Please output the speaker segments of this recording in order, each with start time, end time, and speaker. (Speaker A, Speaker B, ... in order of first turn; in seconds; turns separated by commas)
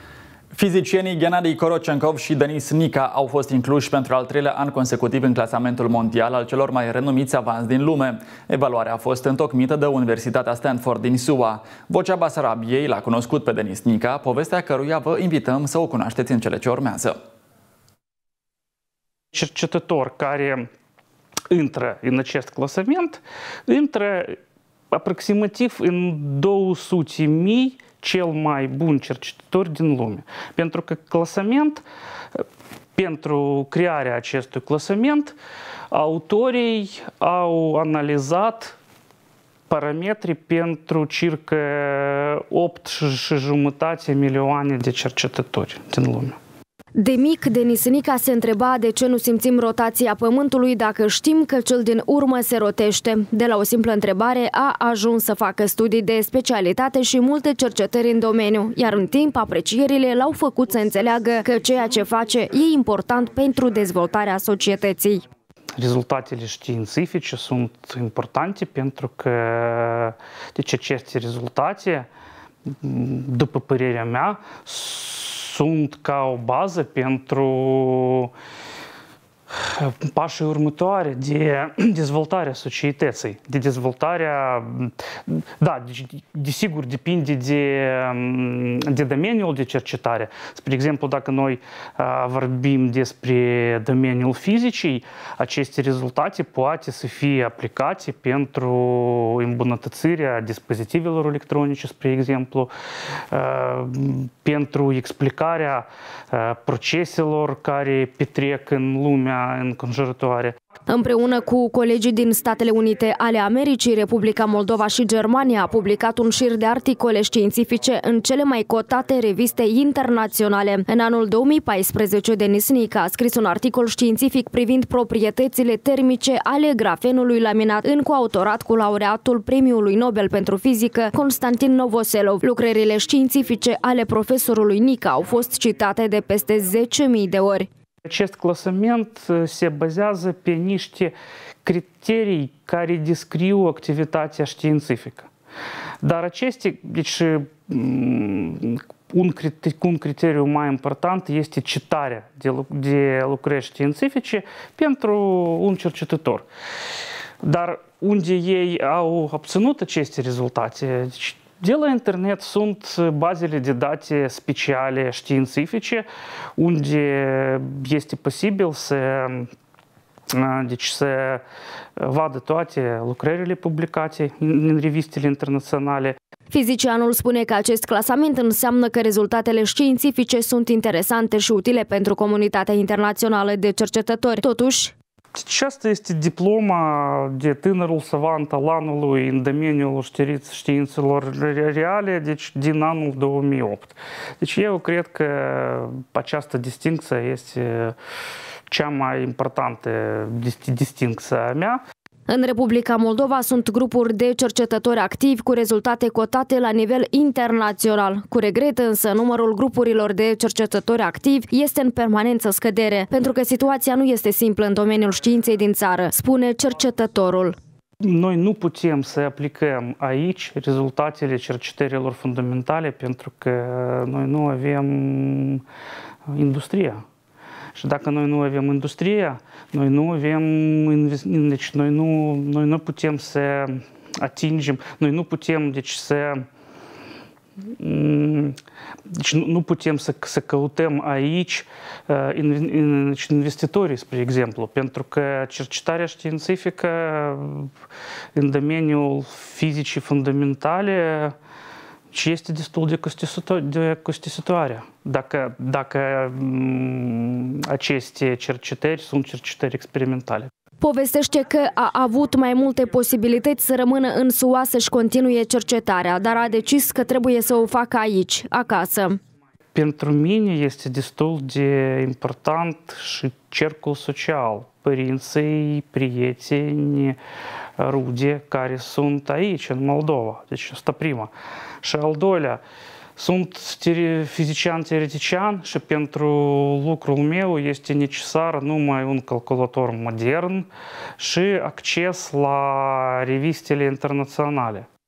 Speaker A: 0.5-17.2, Speaker B: 19.3-20.7, Speaker B: 21.5-24.4, Speaker B: 24.9-31.8, Speaker B: 33.0-35.4, Speaker B: 35.9-38.8, Speaker B: 39.7-46.4, Speaker C: 47.0-65.2, Speaker B: 65.8-72.1, Speaker B: 72.7-78.3, Speaker B: 79.5-102.7, Speaker B: 103.3-110.5, Speaker C: 110.9-137.7, Speaker B: 138.1-145.3, Speaker B: 146.0-156.4, Speaker B: 157.4-169.5, Speaker B: 170.3-171.4, Speaker B: 172.0-176.2, Speaker C: 176.5-184.9, Speaker B: 185.3-198.0, Speaker B: 198.7-201.8, Speaker C: 202.3-217.6, Speaker B: 218.0-225.6, Speaker B: 226.3-227.0, Speaker B: 227.8-236.5, Speaker B: 237.8-238.6, Speaker B: 239.1-247.7, Speaker B: 248.3-251.3, Speaker B: 252.1-260.5, Speaker C: 260.8-269.2, Speaker B: 269.7-277.2, Speaker B: 277.8-281.3, Speaker B: 281.8-282.6, Speaker B: 283.2-290.7, Speaker B: 291.2-294.9